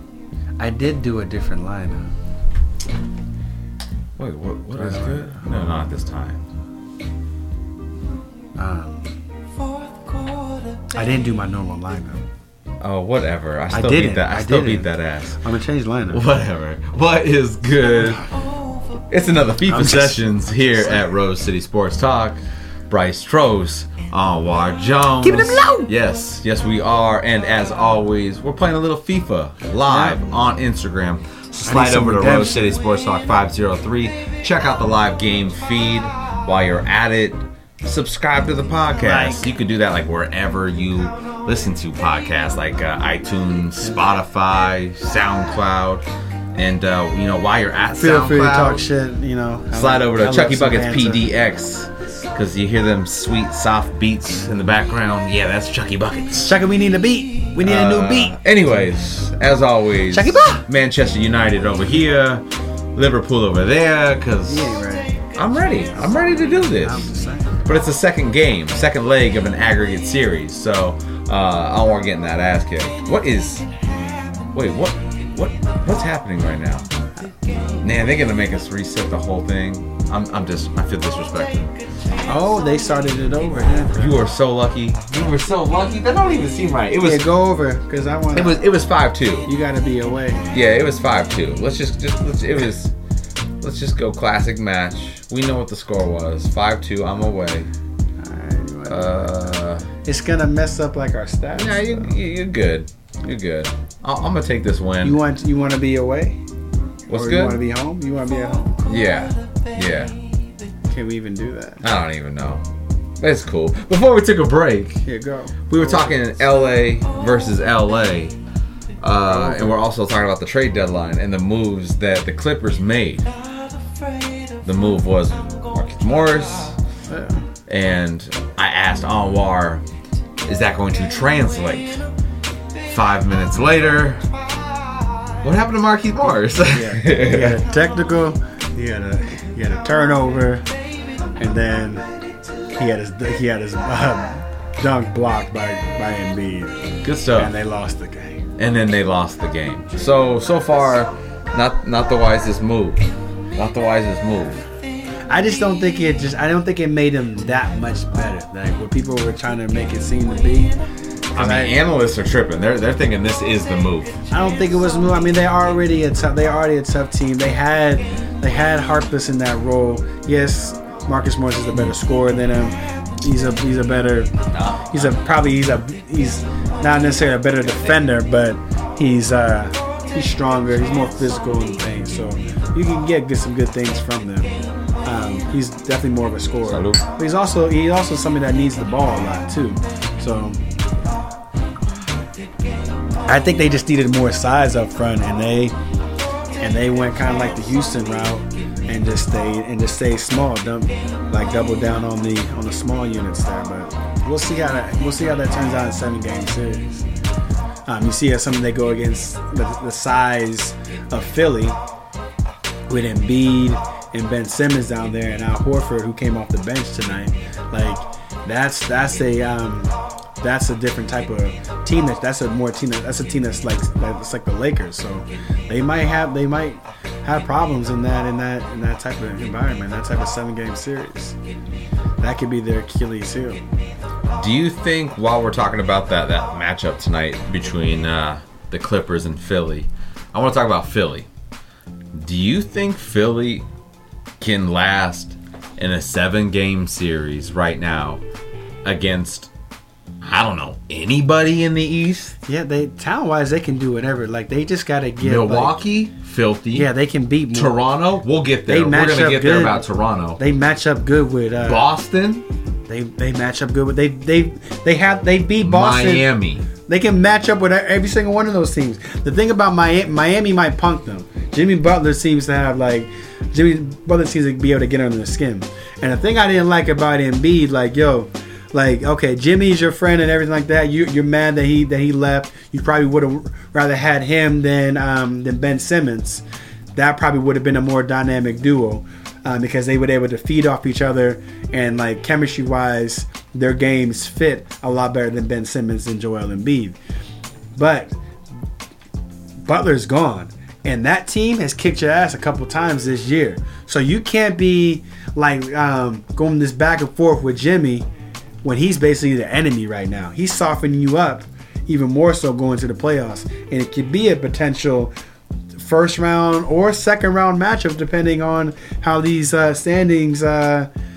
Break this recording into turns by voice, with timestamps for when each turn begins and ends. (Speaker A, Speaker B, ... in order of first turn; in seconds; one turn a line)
Speaker A: 0.6-2.0
Speaker B: 4.2-6.4
Speaker A: 4.8-5.7
Speaker A: 8.6-9.1
Speaker A: 10.8-12.2
Speaker B: 12.8-15.4
Speaker A: 13.7-16.2
Speaker B: 16.1-18.3
Speaker B: 18.9-46.0
Speaker A: 19.7-21.1
Speaker A: 25.2-25.9
Speaker A: 29.9-30.2
Speaker A: 31.7-32.7
Speaker A: 39.0-39.4
Speaker B: 46.5-48.8
Speaker A: 48.0-51.3
Speaker B: 49.7-56.5
Speaker A: 56.4-58.4
Speaker B: 57.6-62.4
Speaker A: 60.1-60.7
Speaker B: 63.0-64.8
Speaker A: 64.5-65.2
Speaker B: 65.3-67.1
Speaker A: 66.3-67.6
Speaker B: 67.7-73.7
Speaker B: 74.5-76.9
Speaker A: 77.2-77.8
Speaker B: 77.8-81.7
Speaker A: 82.2-84.2
Speaker B: 83.7-87.2
Speaker A: 87.0-88.6
Speaker B: 88.3-89.5
Speaker A: 89.5-90.4
Speaker B: 90.5-92.9
Speaker B: 93.6-97.7
Speaker A: 98.2-99.1
Speaker B: 98.9-99.9
Speaker A: 100.0-102.1
Speaker B: 101.6-105.2
Speaker A: 105.0-106.4
Speaker B: 107.1-107.6
Speaker A: 107.1-108.9
Speaker B: 108.8-110.2
Speaker A: 110.9-111.8
Speaker B: 111.8-112.6
Speaker B: 113.2-115.0
Speaker A: 115.0-116.4
Speaker B: 115.7-118.4
Speaker B: 119.0-123.3
Speaker A: 119.3-119.8
Speaker B: 124.6-126.8
Speaker A: 127.1-127.5
Speaker B: 127.7-129.8
Speaker B: 130.5-132.0
Speaker B: 132.8-134.3
Speaker B: 135.4-137.6
Speaker A: 136.7-140.7
Speaker A: 141.4-142.0
Speaker A: 142.7-148.4
Speaker B: 147.0-147.5
Speaker B: 148.6-153.0
Speaker B: 153.6-154.6
Speaker A: 155.3-160.8
Speaker A: 161.3-161.8
Speaker B: 161.4-164.2
Speaker A: 164.3-174.3
Speaker B: 174.5-175.2
Speaker A: 174.9-184.5
Speaker B: 177.6-178.1
Speaker A: 185.1-190.6
Speaker B: 186.7-187.1
Speaker A: 193.3-195.7
Speaker A: 196.6-207.1
Speaker A: 207.9-211.8
Speaker A: 212.9-231.4
Speaker A: 232.2-233.6
Speaker B: 234.3-241.3
Speaker B: 242.2-243.7
Speaker B: 244.4-248.2
Speaker B: 248.8-249.5
Speaker B: 250.2-252.3
Speaker A: 252.5-255.8
Speaker B: 255.2-256.9
Speaker A: 256.7-257.8
Speaker B: 257.5-260.4
Speaker A: 258.7-259.8
Speaker A: 260.4-261.9
Speaker B: 261.6-262.4
Speaker A: 262.9-266.3
Speaker B: 265.6-266.7
Speaker A: 266.9-286.4
Speaker A: 286.9-297.0
Speaker A: 297.8-298.1
Speaker A: 299.7-308.1
Speaker A: 308.6-315.1
Speaker A: 315.8-320.9